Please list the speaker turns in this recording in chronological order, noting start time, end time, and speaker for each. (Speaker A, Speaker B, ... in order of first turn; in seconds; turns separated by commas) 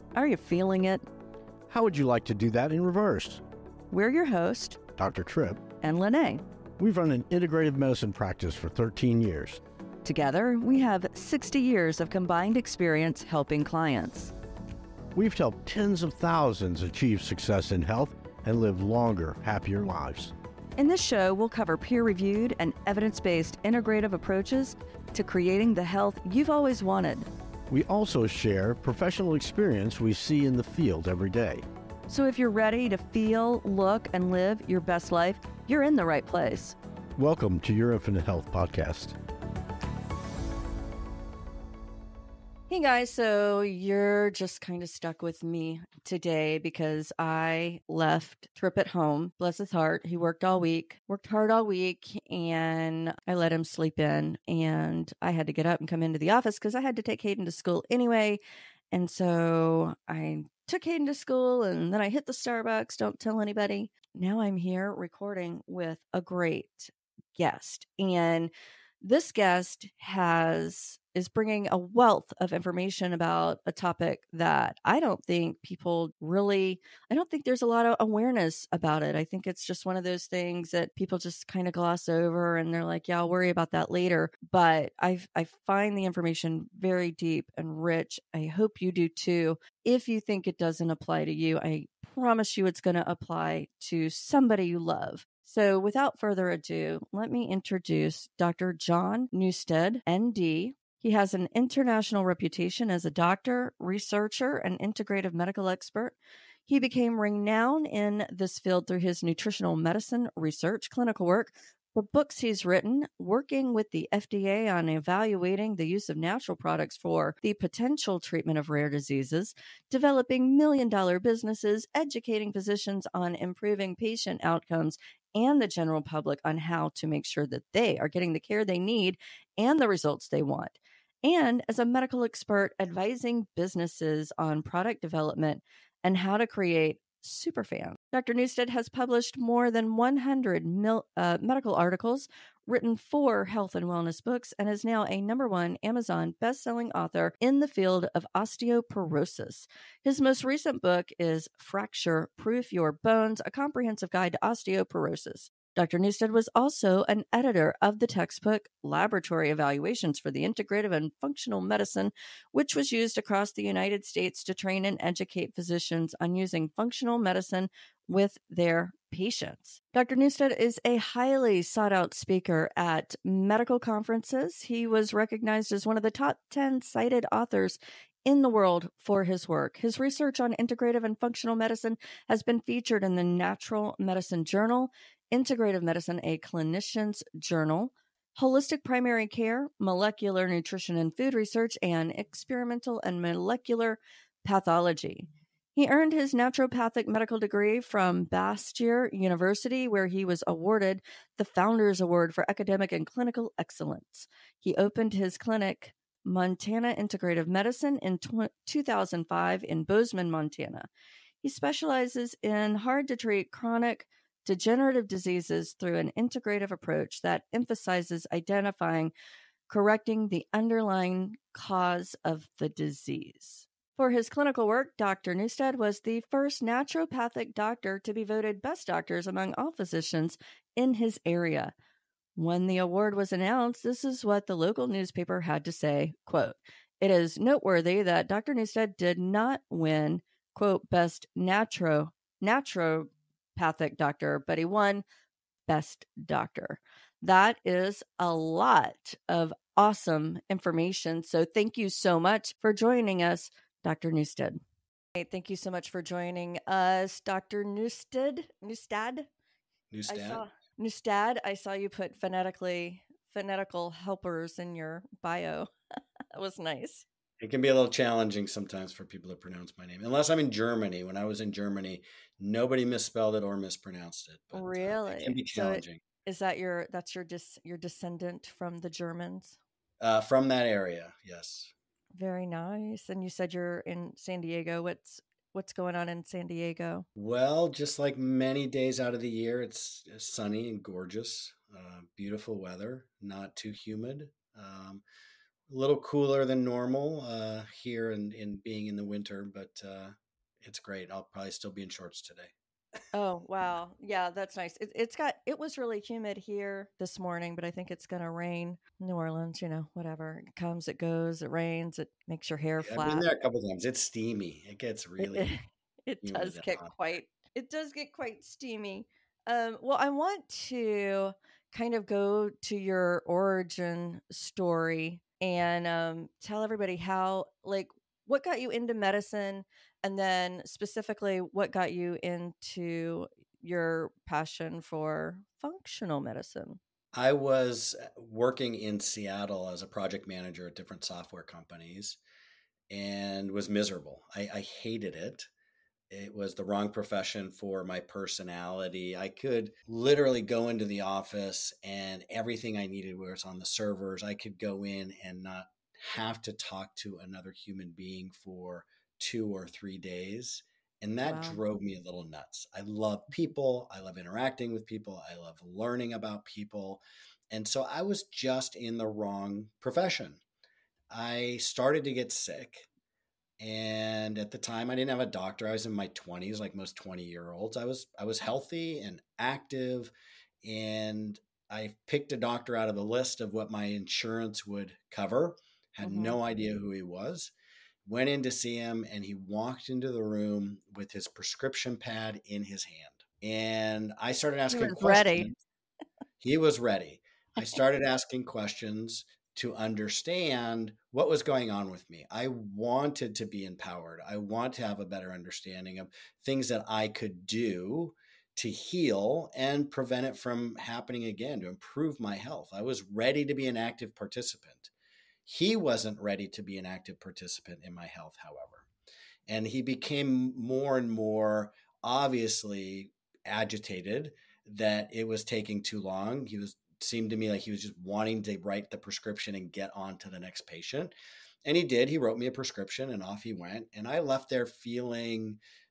Speaker A: 0.1-1.1, Speaker B: 1.7-3.4, Speaker A: 3.9-4.8, Speaker B: 5.0-5.7, Speaker A: 5.8-6.4, Speaker B: 6.8-9.6, Speaker A: 10.0-14.3, Speaker B: 15.1-20.3, Speaker A: 20.8-27.3, Speaker B: 27.7-31.6, Speaker A: 32.1-36.8, Speaker B: 37.2-39.2, Speaker A: 42.7-58.4, Speaker A: 58.9-106.2, Speaker A: 106.7-210.9, Speaker A: 211.4-219.1, Speaker A: 219.7-231.7, Speaker A: 232.4-245.1, Speaker A: 245.7-254.6, Speaker A: 255.2-259.3, Speaker C: 259.9-260.4, Speaker A: 260.1-265.7, Speaker A: 266.3-267.1, Speaker C: 267.4-276.0, Speaker A: 274.5-279.6, Speaker C: 280.0-281.7, Speaker A: 282.2-287.1, Speaker C: 287.2-295.0, Speaker C: 295.7-302.5, Speaker A: 303.1-313.3, Speaker C: 312.8-315.5, Speaker A: 315.2-336.8, Speaker C: 316.2-316.9, Speaker C: 337.1-342.2, Speaker C: 342.9-345.5, Speaker C: 346.1-370.4, Speaker A: 361.3-361.6, Speaker C: 371.1-372.9, Speaker C: 373.6-387.5, Speaker A: 386.0-386.4, Speaker C: 388.1-395.6, Speaker A: 394.7-395.5, Speaker C: 396.4-414.9, Speaker C: 415.5-418.9, Speaker C: 419.5-431.1, Speaker C: 431.6-435.6